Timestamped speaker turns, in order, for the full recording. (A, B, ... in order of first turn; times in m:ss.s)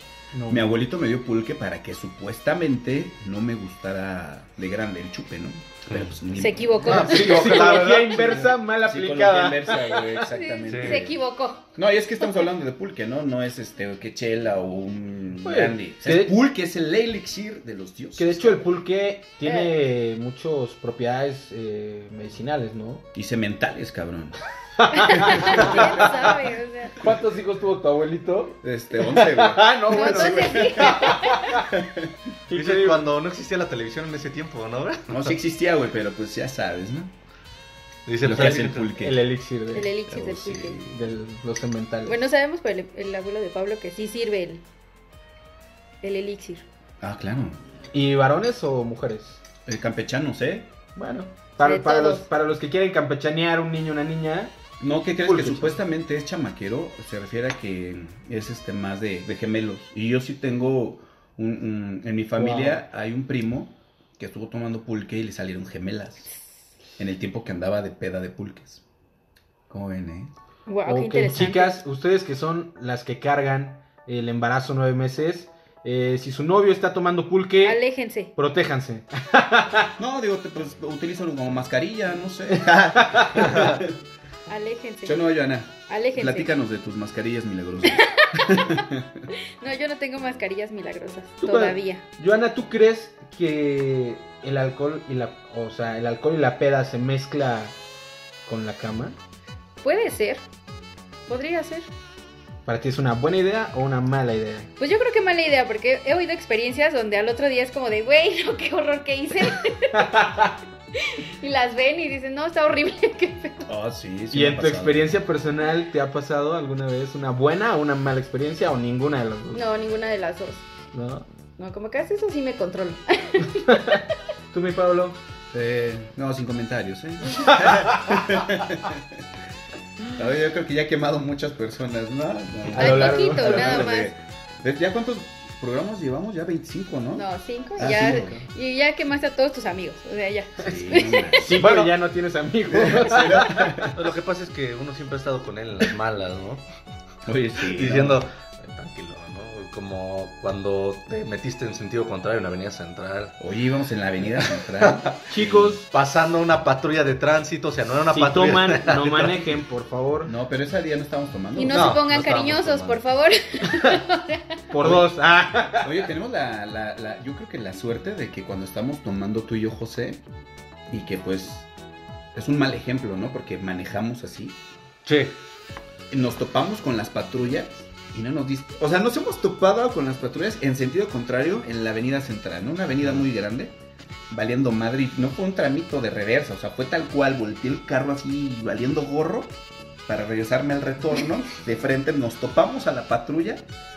0:00.3-0:00.8 A
0:00.5-0:11.2 B
0:06.4-0:07.8 C
0:06.8-0:08.4 D
0:06.9-0:10.2 A
0:10.2-0:11.7 C
0:10.6-0:11.1 D
0:11.8-0:18.7 B
0:15.4-0:16.3 A
0:18.2-0:23.0 A
0:19.4-0:19.7 C
0:23.1-0:24.4 B
0:24.8-0:26.0 A
0:24.9-0:27.0 C
0:25.1-0:26.4 B
0:26.9-0:31.7 A
0:28.6-0:32.1 B
0:29.9-0:31.5 C
0:32.5-0:33.0 A
0:32.5-0:35.3 D
0:35.1-0:37.1 B
0:38.1-0:38.9 D
0:38.2-0:39.3 B
0:39.0-0:39.9 A
0:39.7-0:40.8 C
0:40.1-0:41.0 B
0:40.9-0:42.2 A
0:42.0-0:44.6 C
0:46.0-0:46.6 C
0:47.0-0:47.6 B
0:47.9-0:49.4 A
0:49.6-0:50.7 B
0:51.0-0:54.5 A
0:51.6-0:52.2 C
0:54.8-1:06.3 B
0:55.2-0:55.8 A
1:02.4-1:02.8 A
1:07.0-1:08.8 B
1:09.7-1:10.3 B
1:10.7-1:11.8 C
1:10.8-1:17.8 A
1:17.6-1:18.3 C
1:18.3-1:19.9 A
1:20.0-1:24.0 B
1:23.0-1:23.5 A
1:23.5-1:23.8 D
1:24.5-1:25.2 C
1:25.0-1:29.3 B
1:25.9-1:26.5 C
1:27.8-1:28.9 C
1:29.6-1:32.0 C
1:31.4-1:37.8 A
1:38.4-1:39.2 A
1:39.8-1:40.4 C
1:41.3-1:41.9 C
1:42.6-1:44.7 A
1:44.8-1:50.1 C
1:49.9-1:50.5 A
1:50.9-1:53.7 C
1:53.7-1:55.1 B
1:54.3-1:59.6 A
1:59.5-2:00.6 C
2:00.9-2:01.2 A
2:01.6-2:04.0 C
2:03.6-2:04.0 A
2:04.5-2:05.2 A
2:05.5-2:09.2 B
2:07.5-2:08.2 A
2:10.1-2:18.4 B
2:12.7-2:13.9 A
2:12.8-2:14.1 C
2:17.1-2:21.4 C
2:17.8-2:18.4 A
2:20.6-2:21.7 B
2:21.4-2:23.9 A
2:21.5-2:21.9 D
2:22.7-2:24.0 B
2:23.9-2:26.6 D
2:27.2-2:28.2 B
2:27.6-2:33.4 D
2:33.4-2:35.8 B
2:34.4-2:35.2 D
2:35.3-2:35.8 A
2:35.9-2:39.4 D
2:38.1-2:40.3 A
2:40.2-2:42.0 B
2:41.5-2:44.6 C
2:41.7-2:43.0 D
2:44.7-2:45.9 A
2:44.8-2:45.1 B
2:45.8-2:50.2 B
2:50.9-2:51.7 B
2:52.3-2:54.6 B
2:55.0-2:55.4 D
2:56.1-3:03.7 B
3:04.3-3:09.6 B
3:10.1-3:13.6 B